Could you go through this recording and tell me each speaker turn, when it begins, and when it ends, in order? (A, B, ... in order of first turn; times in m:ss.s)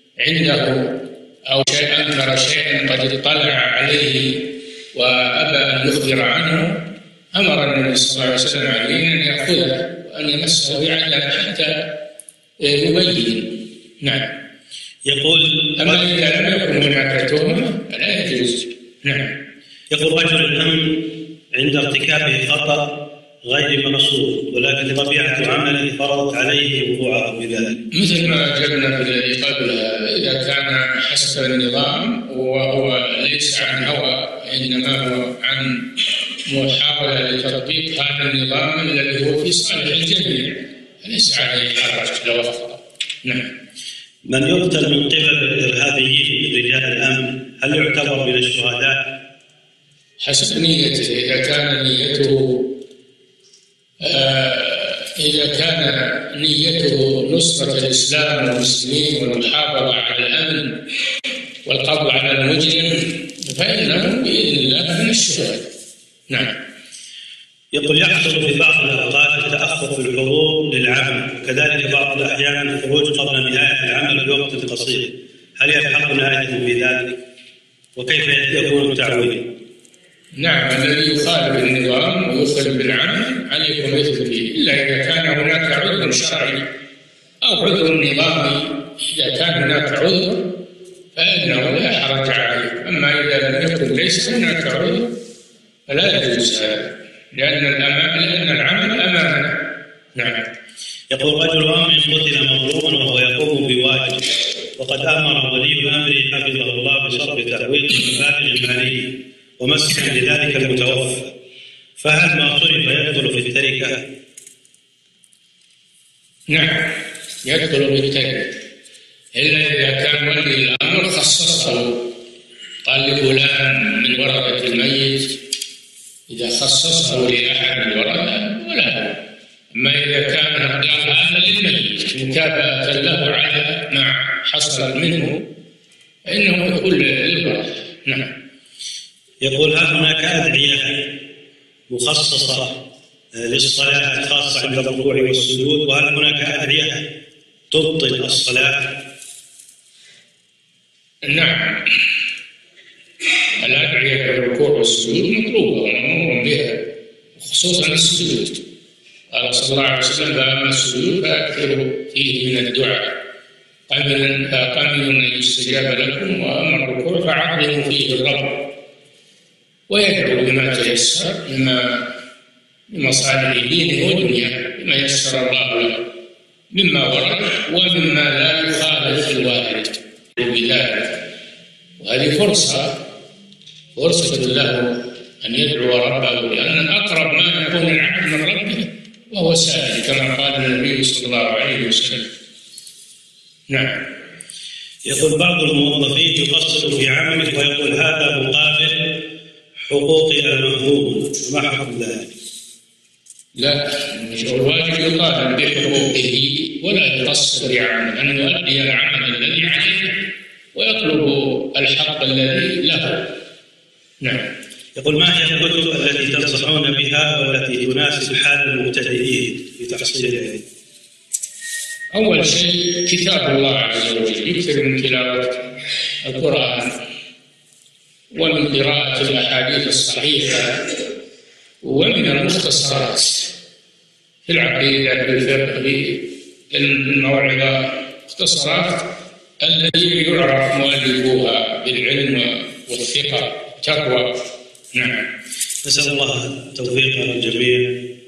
0:00.2-0:12.0 A
0:12.6-0:14.3 A
0:15.1-0:16.1 B
0:15.8-0:19.4 A
0:19.9-0:27.9 B
0:27.9-0:43.5 A
0:44.3-0:49.2 B
0:50.2-0:52.8 A
0:54.0-1:00.8 A
1:01.7-1:05.7 A
1:06.3-1:06.6 A
1:07.7-1:17.2 B
1:18.0-1:19.5 B
1:20.4-1:26.7 A
1:27.4-1:30.6 A
1:31.1-1:35.2 A
1:35.9-1:40.5 A
1:41.1-1:51.4 B
1:52.0-1:54.1 B
1:56.5-1:58.6 A
1:59.3-2:02.2 A
2:02.8-2:05.4 A
2:06.3-2:09.2 A
2:09.7-2:15.5 A
2:16.3-2:18.4 A
2:19.4-2:21.2 B
2:21.9-2:27.1 B
2:27.7-2:29.0 B
2:31.2-2:31.9 A
2:33.6-2:38.7 A
2:39.3-2:43.2 A
2:43.9-2:48.8 A
2:49.9-2:52.2 A
2:52.9-2:56.1 A
2:56.7-3:01.4 A
3:02.0-3:03.1 A
3:04.0-3:12.3 A
3:13.7-3:14.1 A
3:15.0-3:19.3 B
3:19.9-3:22.4 B
3:23.6-3:33.4 A
3:34.2-3:34.5 A
3:35.0-3:40.7 B
3:42.1-3:45.7 A
3:46.2-3:47.0 A
3:48.3-3:51.0 A
3:51.8-3:53.6 A
3:54.5-4:05.3 A
4:05.8-4:08.1 B